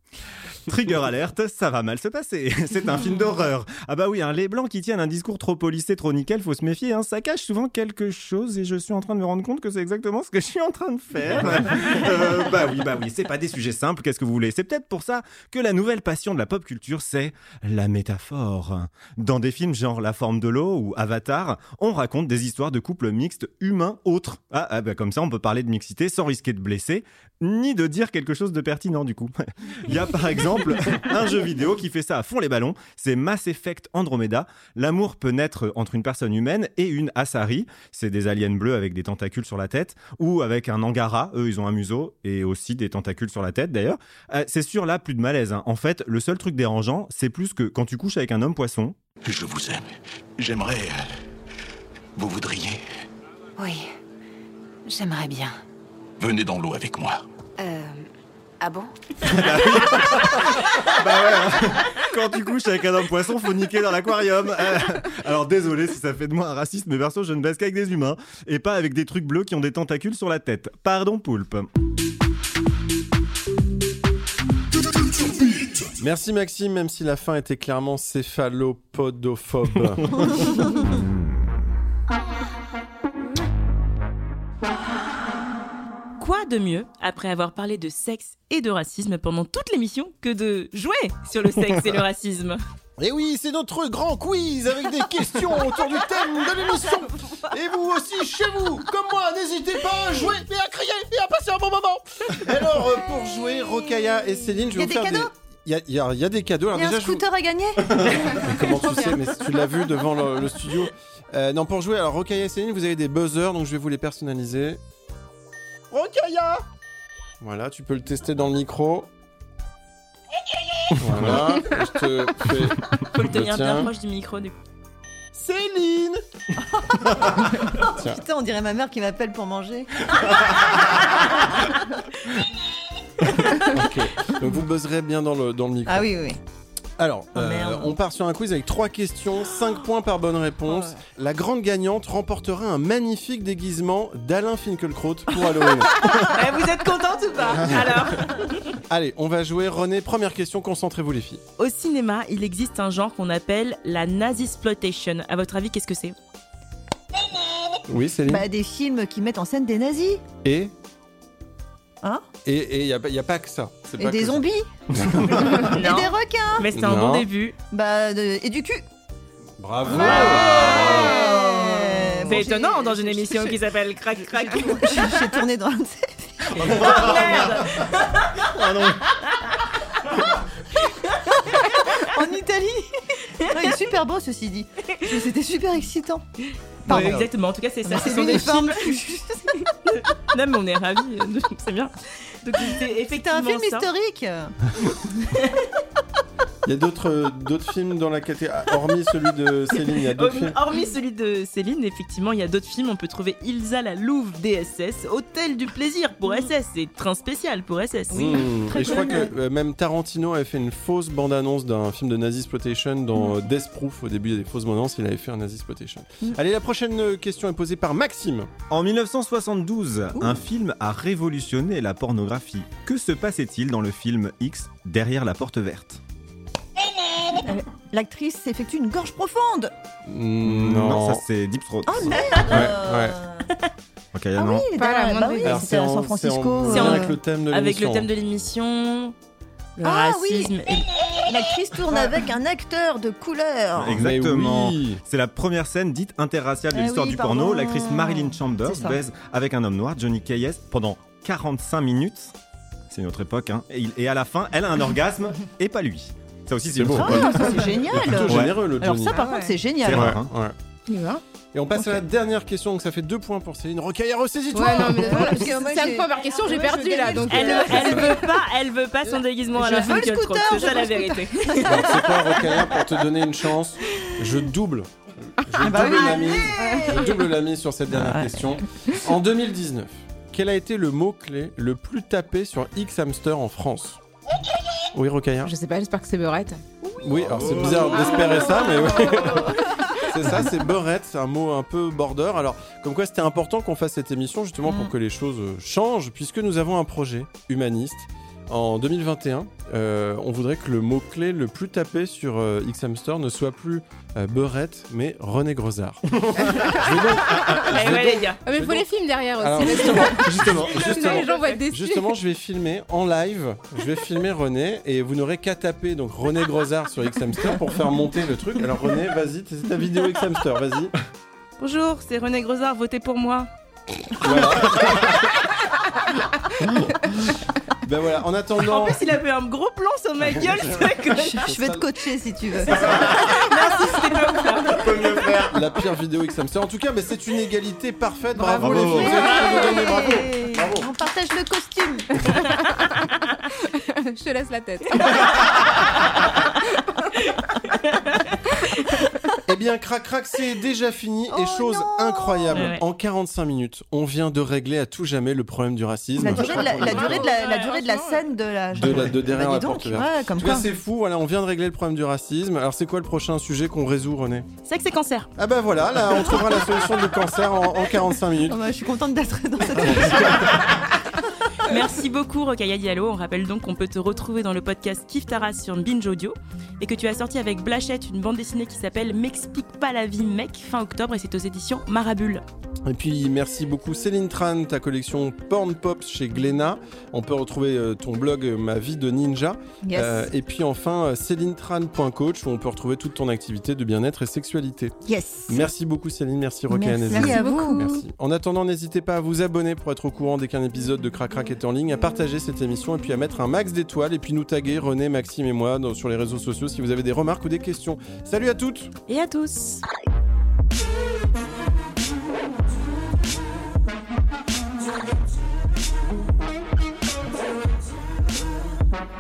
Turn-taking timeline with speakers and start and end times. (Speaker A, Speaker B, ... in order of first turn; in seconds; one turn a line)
Speaker A: 0.7-49.0
Speaker B: 49.2-51.1
Speaker B: 52.2-52.8
Speaker C: 53.6-53.9
Speaker C: 54.9-55.6
Speaker B: 56.2-57.2
Speaker C: 57.6-58.1
Speaker C: 58.6-58.9
Speaker A: 59.3-71.7
Speaker D: 76.0-80.5
Speaker E: 86.2-92.6
Speaker D: 93.0-107.2
Speaker F: 104.6-105.3
Speaker F: 106.7-108.2
Speaker D: 108.2-114.8
Speaker D: 115.9-116.6
Speaker D: 117.4-119.1
Speaker D: 121.0-123.9
Speaker E: 123.1-124.5
Speaker D: 125.3-126.2
Speaker F: 126.8-130.0
Speaker D: 127.8-128.2
Speaker D: 133.7-136.1
Speaker F: 135.9-136.4
Speaker D: 137.0-146.3
Speaker F: 137.3-138.0
Speaker F: 140.7-141.0
Speaker E: 146.2-148.7
Speaker D: 148.9-151.4
Speaker E: 151.6-156.2
Speaker D: 157.9-158.4
Speaker F: 158.3-160.2
Speaker D: 160.4-160.7
Speaker D: 162.4-164.4
Speaker F: 164.0-166.7
Speaker D: 164.9-165.7
Speaker E: 165.6-167.6
Speaker D: 166.7-167.3
Speaker F: 167.7-168.8
Speaker D: 169.6-170.7
Speaker E: 169.9-175.4
Speaker F: 169.9-173.6
Speaker F: 174.2-176.5
Speaker E: 176.6-178.4
Speaker A: 176.6-177.6
Speaker A: 178.4-179.0
Speaker F: 181.8-186.2
Speaker F: 186.9-187.2
Speaker E: 186.9-189.0
Speaker F: 187.8-189.4
Speaker E: 189.6-193.9
Speaker F: 192.6-195.3
Speaker D: 196.7-200.6
Speaker E: 200.2-208.3
Speaker F: 208.1-209.3
Speaker D: 208.2-218.5
Speaker A: 218.7-226.0
Speaker F: 227.4-229.7
Speaker D: 230.1-231.2
Speaker A: 230.4-232.7
Speaker F: 231.9-233.5
Speaker D: 232.5-233.2
Speaker A: 234.2-234.7
Speaker F: 234.3-237.2
Speaker G: 234.8-235.7
Speaker D: 235.4-238.1
Speaker E: 236.7-239.2
Speaker E: 239.8-240.9
Speaker F: 239.8-240.6
Speaker F: 241.2-244.0
Speaker A: 243.8-252.3
Speaker D: 243.9-245.0
Speaker F: 246.7-249.0
Speaker A: 252.9-258.5
Speaker D: 256.8-259.2
Speaker F: 257.0-260.1
Speaker G: 259.1-259.5
Speaker A: 259.9-260.3
Speaker D: 259.9-260.6
Speaker G: 260.9-261.2
Speaker D: 261.5-265.5
Speaker G: 264.5-268.1
Speaker F: 264.9-268.2
Speaker E: 267.3-271.8
Speaker F: 269.6-272.6
Speaker D: 271.6-284.0
Speaker F: 275.6-277.2
Speaker F: 277.9-278.4
Speaker D: 284.9-285.5
Speaker G: 285.4-286.6
Speaker F: 286.8-289.5
Speaker D: 287.0-308.9
Speaker G: 287.5-289.3
Speaker E: 307.6-308.4
Speaker G: 308.4-312.1
Speaker D: 309.4-320.9
Speaker E: 311.0-311.6
Speaker E: 321.6-323.5
Speaker D: 324.2-325.3
Speaker D: 326.6-326.9
Speaker D: 327.8-329.0
Speaker E: 328.7-331.6
Speaker F: 331.1-333.4
Speaker D: 331.5-331.8
Speaker A: 332.7-333.4
Speaker D: 332.8-333.1
Speaker E: 333.0-334.9
Speaker A: 334.7-335.6
Speaker D: 335.5-340.9
Speaker G: 338.4-340.1
Speaker A: 338.5-339.4
Speaker F: 338.8-342.1
Speaker G: 343.7-345.6
Speaker E: 347.4-349.1
Speaker D: 349.5-357.3
Speaker F: 351.3-352.6
Speaker E: 352.5-352.8
Speaker F: 356.2-360.7
Speaker G: 356.3-358.2
Speaker D: 358.7-364.5
Speaker E: 364.6-365.3
Speaker D: 365.4-368.6
Speaker F: 366.1-366.9
Speaker F: 368.5-370.8
Speaker D: 369.7-370.7
Speaker E: 371.7-382.4
Speaker D: 382.9-394.9
Speaker F: 389.8-390.3
Speaker F: 395.1-395.6
Speaker D: 395.5-408.9
Speaker F: 396.7-398.0
Speaker G: 397.1-397.9
Speaker E: 409.1-409.8